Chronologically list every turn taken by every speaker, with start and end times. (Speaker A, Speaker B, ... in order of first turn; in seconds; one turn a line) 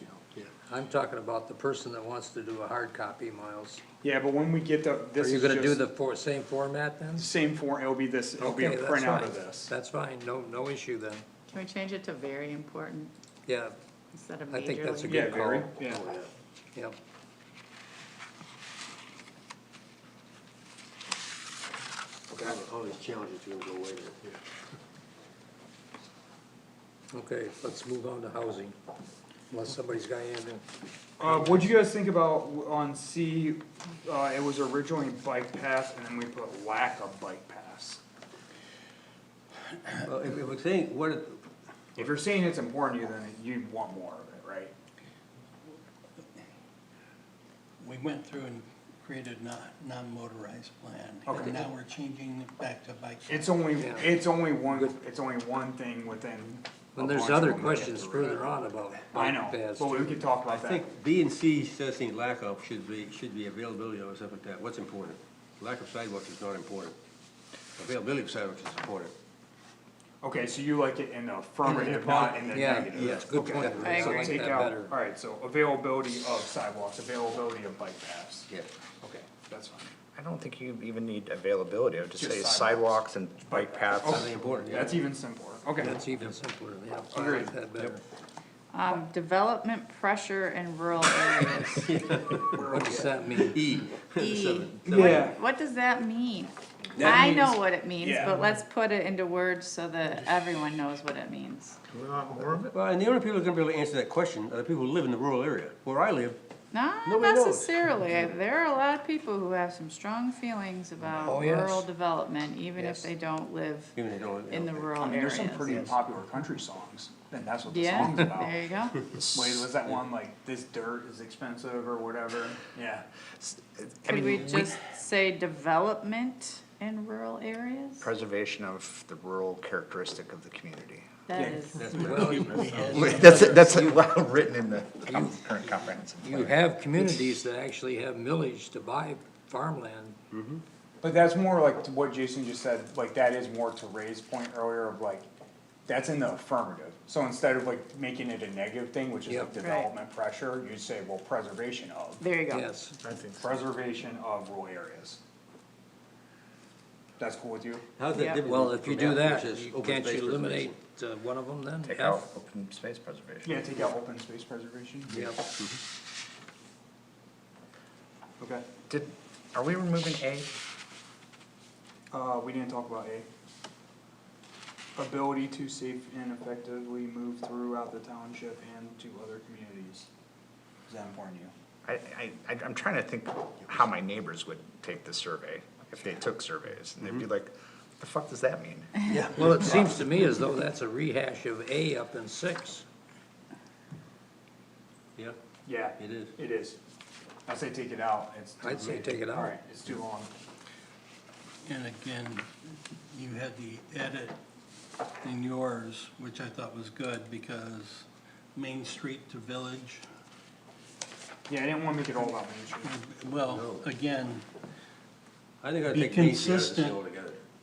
Speaker A: 0.7-3.8
Speaker B: 4.0-5.8
Speaker A: 5.2-7.3
Speaker B: 7.2-9.7
Speaker A: 8.4-11.2
Speaker C: 11.5-13.1
Speaker A: 13.5-13.8
Speaker C: 14.1-15.4
Speaker A: 14.5-15.7
Speaker B: 15.1-16.0
Speaker D: 15.9-16.3
Speaker D: 22.3-24.3
Speaker A: 27.1-28.8
Speaker A: 29.5-30.6
Speaker B: 31.2-38.0
Speaker D: 40.0-41.4
Speaker B: 42.0-44.7
Speaker E: 47.8-53.6
Speaker B: 51.2-51.6
Speaker B: 53.3-60.9
Speaker A: 53.8-54.2
Speaker A: 56.9-60.2
Speaker D: 60.4-67.0
Speaker D: 67.8-69.1
Speaker B: 70.2-78.5
Speaker A: 71.6-74.9
Speaker D: 71.7-72.3
Speaker D: 72.9-74.3
Speaker C: 73.8-74.3
Speaker B: 79.0-79.9
Speaker F: 80.1-84.3
Speaker B: 82.2-86.0
Speaker D: 84.0-85.0
Speaker A: 85.8-88.0
Speaker D: 85.8-86.3
Speaker B: 87.1-87.5
Speaker C: 88.7-91.9
Speaker D: 91.8-92.6
Speaker B: 92.4-93.3
Speaker A: 92.7-93.6
Speaker D: 93.3-95.3
Speaker C: 94.2-101.8
Speaker B: 94.9-95.4
Speaker B: 97.0-98.3
Speaker F: 101.9-102.7
Speaker D: 102.6-106.4
Speaker C: 106.7-114.0
Speaker D: 107.0-108.3
Speaker A: 111.2-111.8
Speaker D: 112.8-113.1
Speaker D: 113.9-115.2
Speaker C: 114.5-115.9
Speaker B: 115.0-118.7
Speaker F: 115.6-116.0
Speaker C: 117.7-119.0
Speaker F: 119.1-119.7
Speaker B: 119.3-123.0
Speaker F: 123.4-124.6
Speaker C: 124.0-128.1
Speaker D: 124.3-124.7
Speaker F: 128.0-131.1
Speaker C: 131.3-132.0
Speaker B: 131.3-133.2
Speaker D: 131.8-133.4
Speaker A: 132.0-132.8
Speaker E: 132.1-133.7
Speaker F: 132.7-137.3
Speaker A: 133.5-134.1
Speaker A: 135.1-140.2
Speaker D: 140.3-140.6
Speaker B: 141.0-145.3
Speaker B: 145.9-152.2
Speaker A: 149.3-149.5
Speaker C: 149.6-149.9
Speaker C: 152.2-152.7
Speaker A: 152.5-152.9
Speaker F: 153.0-153.6
Speaker B: 153.4-155.2
Speaker B: 157.2-157.8
Speaker D: 158.0-160.8
Speaker C: 158.1-158.4
Speaker A: 158.4-162.2
Speaker F: 161.8-163.7
Speaker B: 163.4-165.3
Speaker A: 165.1-165.4
Speaker D: 165.1-165.8
Speaker B: 168.4-168.7
Speaker F: 168.9-170.5
Speaker B: 172.1-173.3
Speaker B: 175.0-180.1
Speaker B: 180.9-181.5
Speaker F: 181.8-188.9
Speaker D: 189.1-189.8
Speaker A: 189.3-192.9
Speaker B: 195.7-196.8
Speaker D: 196.0-196.3
Speaker B: 197.5-200.3
Speaker A: 198.6-199.6
Speaker D: 198.7-199.0
Speaker E: 201.6-202.5
Speaker E: 203.1-204.4
Speaker E: 205.2-210.1
Speaker B: 211.5-212.9
Speaker E: 212.8-214.5
Speaker D: 213.5-213.9
Speaker D: 215.6-217.4
Speaker E: 215.8-217.0